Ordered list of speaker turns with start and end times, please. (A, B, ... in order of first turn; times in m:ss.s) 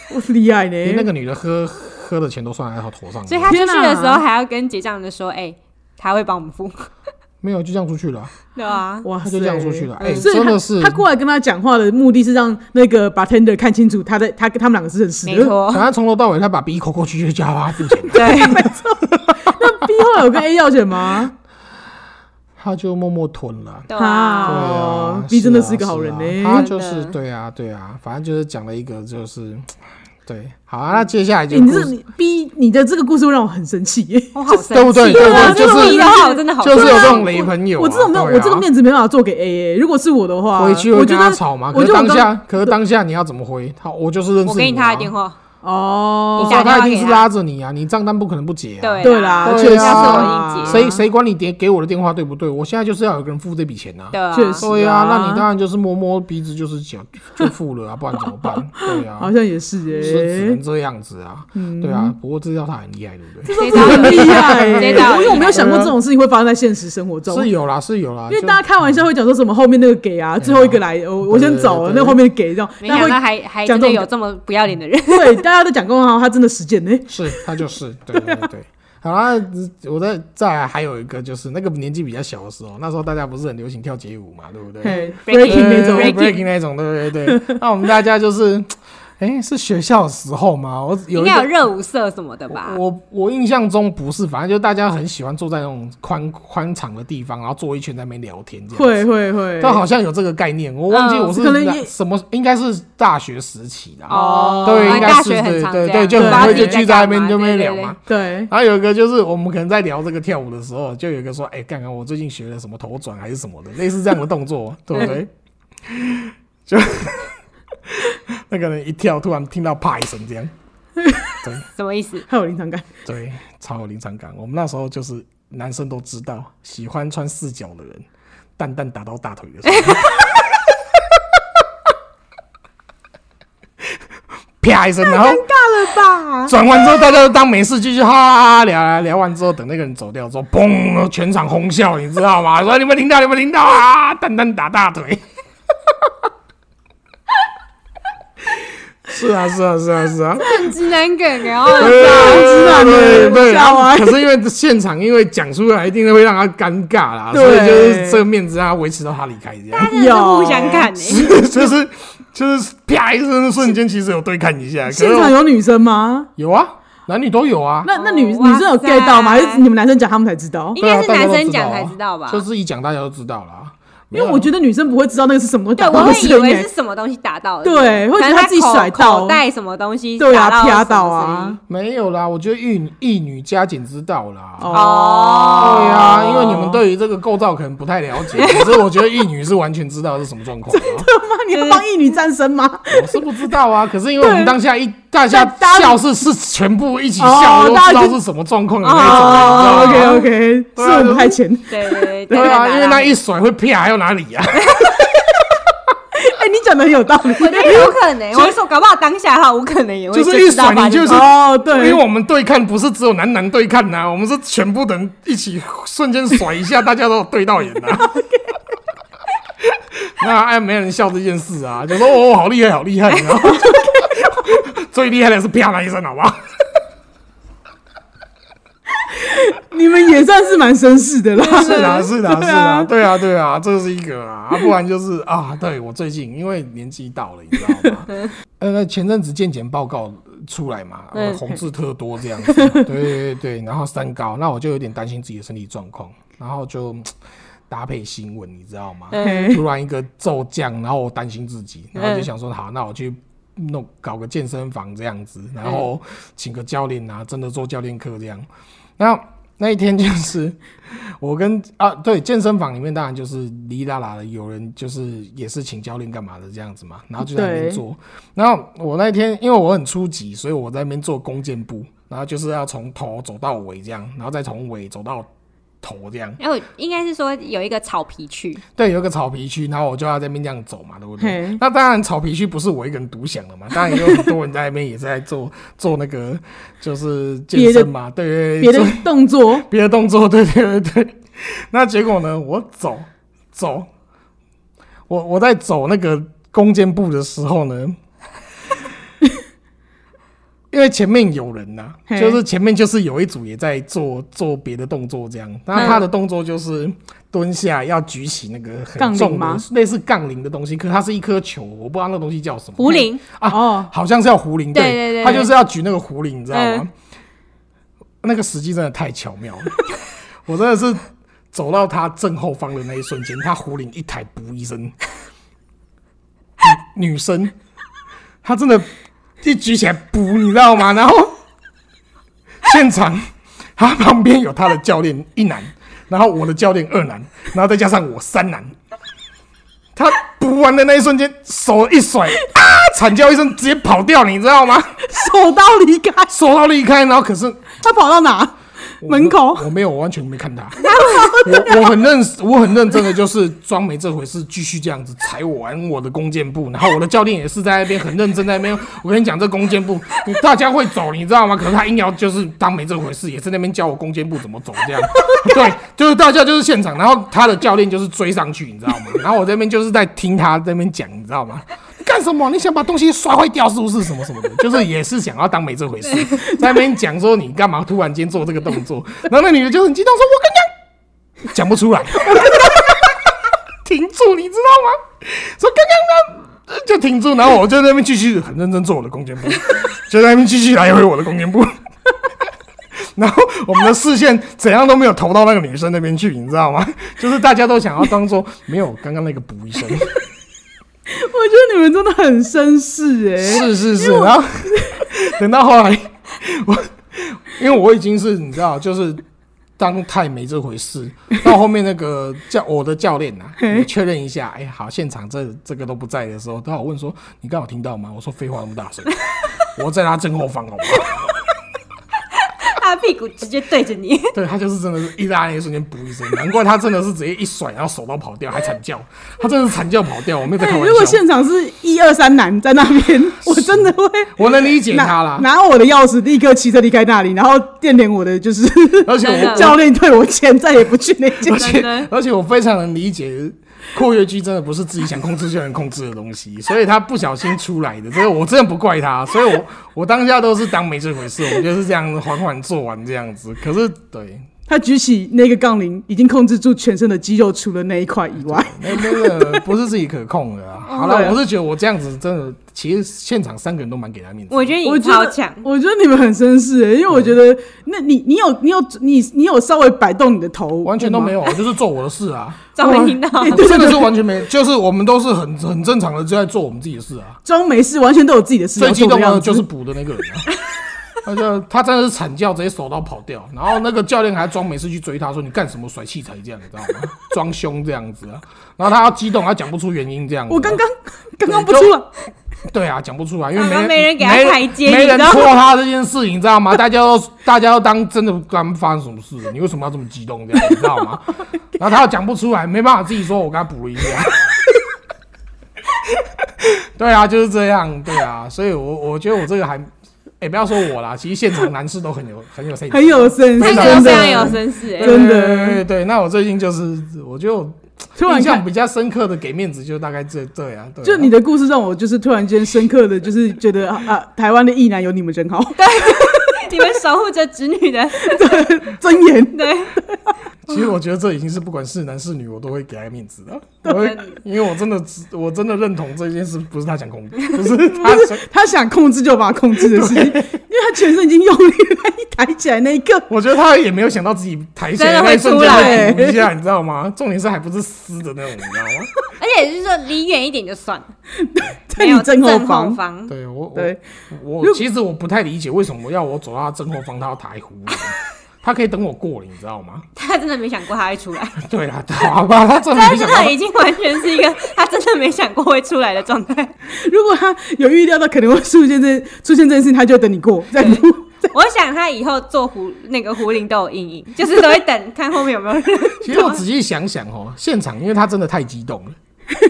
0:00.1-0:01.1 A
0:00.8-0:03.6 B
0:03.3-0:06.9 C
0:03.5-0:04.2 A
0:07.4-0:08.3 B
0:08.6-0:09.1 C
0:09.0-0:15.5 A
0:09.2-0:11.0 B
0:10.0-0:10.3 C
0:15.3-0:15.9 C
0:15.7-0:18.7 B
0:18.1-0:18.7 C
0:18.4-0:21.3 A
0:22.6-0:23.9 B
0:23.9-0:24.7 C
0:24.0-0:26.7 A
0:24.4-0:31.9 B
0:26.5-0:27.2 C
0:31.5-0:42.7 A
0:34.4-0:37.5 C
0:34.7-0:38.7 B
0:40.6-0:45.1 B
0:44.4-0:45.4 C
0:45.6-0:46.7 A
0:46.4-0:59.3 B
0:46.4-0:47.3 C
0:48.8-0:50.9 C
0:49.0-0:51.0 A
0:54.1-0:54.6 C
0:54.3-0:55.4 A
0:58.8-1:00.6 A
1:00.0-1:06.0 B
1:01.6-1:02.2 A
1:03.5-1:07.5 A
1:03.6-1:05.8 C
1:07.3-1:08.6 B
1:08.3-1:14.1 A
1:10.4-1:12.2 B
1:12.8-1:15.4 C
1:15.1-1:17.5 A
1:17.1-1:31.5 B
1:18.2-1:18.5 A
1:24.8-1:26.2 A
1:24.9-1:26.4 C
1:31.1-1:32.8 C
1:32.5-1:39.0 B
1:38.7-1:39.8 A
1:39.6-1:55.3 B
1:40.9-1:41.3 C
1:41.3-1:41.9 A
1:44.1-1:48.0 C
1:44.1-1:45.2 A
1:46.2-1:46.8 A
1:48.1-1:48.5 A
1:55.8-2:00.5 B
2:01.0-2:01.4 A
2:01.8-2:02.3 C
2:02.3-2:02.9 A
2:03.0-2:08.1 B
2:08.6-2:10.5 B
2:09.7-2:10.2 C
2:14.6-2:15.5 B
2:15.0-2:16.6 C
2:16.5-2:25.2 B
2:29.0-2:30.7 B
2:30.4-2:33.2 C
2:31.7-2:39.9 B
2:31.8-2:34.2 A
2:37.3-2:38.2 A
2:39.7-2:41.4 C
2:39.9-2:40.9 A
2:40.9-2:45.4 B
2:44.9-2:46.3 A
2:46.4-2:47.9 B
2:47.8-2:50.8 A
2:48.0-2:49.6 C
2:50.8-2:52.4 C
2:50.8-2:54.5 B
2:54.1-2:56.7 A
2:55.8-3:01.6 C
2:57.6-2:59.4 A
3:00.2-3:01.6 A
3:01.7-3:04.8 B
3:04.6-3:06.8 A
3:04.7-3:06.5 C
3:05.5-3:11.1 B
3:08.4-3:08.8 C
3:10.7-3:13.2 A
3:11.5-3:11.8 C
3:12.9-3:21.4 B
3:14.2-3:14.5 A
3:15.3-3:16.0 A
3:17.2-3:18.2 A
3:18.8-3:20.3 C
3:19.1-3:22.6 A
3:21.7-3:23.2 C
3:22.3-3:25.7 B
3:26.2-3:28.5 A
3:27.4-3:31.3 C
3:30.1-3:38.2 B
3:31.1-3:32.0 A
3:39.6-3:46.4 B
3:49.2-3:52.9 A
3:51.5-4:07.1 B
3:51.5-3:52.0 C
4:01.2-4:01.6 C
4:02.5-4:02.8 C
4:07.7-4:18.5 B
4:09.1-4:09.5 C
4:09.2-4:09.6 A
4:12.0-4:12.3 C
4:19.0-4:35.3 B
4:27.2-4:27.8 A
4:35.8-4:36.4 B
4:36.4-4:38.6 C
4:38.8-4:53.9 B
4:41.2-4:41.6 A
4:47.5-4:47.9 A
4:48.6-4:49.7 A
4:55.1-4:58.0 B
5:00.7-5:16.9 B
5:02.1-5:02.4 A
5:05.7-5:06.1 C
5:09.0-5:09.6 A
5:12.8-5:13.2 C
5:13.5-5:13.9 A
5:14.7-5:15.5 C
5:16.5-5:16.8 C
5:18.2-5:19.8 B
5:20.4-5:25.0 B
5:26.6-5:27.5 B
5:28.4-5:28.9 B
5:29.4-5:31.4 B
5:32.6-5:38.7 B
5:40.0-5:45.0 B
5:45.0-5:46.3 A
5:46.3-5:47.7 B
5:47.8-5:49.7 A
5:49.0-6:20.7 B
5:50.8-5:51.9 A
5:50.9-5:51.4 C
6:21.4-6:23.3 B
6:23.8-6:31.8 B
6:33.0-6:40.2 B
6:41.1-6:45.0 A
6:43.4-6:49.2 B
6:49.8-7:01.3 B
6:53.6-6:53.8 A
7:02.5-7:04.4 C
7:04.3-7:11.2 B
7:10.6-7:21.8 A
7:13.4-7:15.5 B
7:19.0-7:19.8 B
7:19.2-7:19.8 C
7:21.4-7:34.5 B
7:21.5-7:22.1 C
7:34.7-7:39.6 A
7:38.4-7:44.8 B
7:40.9-7:41.4 A
7:44.5-7:45.6 C
7:44.8-7:51.4 A
7:50.8-7:57.4 B
7:52.8-7:53.7 C
7:53.4-7:54.1 A
7:57.4-7:59.7 A
7:58.8-8:00.5 B
8:01.2-8:10.8 B
8:10.5-8:12.1 A
8:11.5-8:11.9 B
8:12.7-8:24.4 B
8:13.6-8:15.5 C
8:26.0-8:41.3 B
8:32.9-8:35.8 A
8:33.6-8:35.4 C
8:38.2-8:38.6 A
8:41.0-8:46.9 A
8:45.8-8:48.8 C
8:48.2-8:50.3 A
8:49.5-8:50.0 C
8:50.7-8:58.4 B
8:53.9-8:54.3 C
8:57.9-9:03.3 A
8:59.8-9:00.5 B
9:03.3-9:09.1 B
9:05.0-9:06.1 C
9:05.6-9:06.4 A
9:09.4-9:11.1 C
9:11.4-9:13.0 A
9:12.0-9:13.3 C
9:13.3-9:20.1 B
9:13.8-9:14.0 A
9:20.2-9:21.6 C
9:21.6-9:23.6 B
9:22.9-9:26.7 C
9:26.9-9:31.5 A
9:30.8-9:36.6 C
9:36.2-9:39.2 B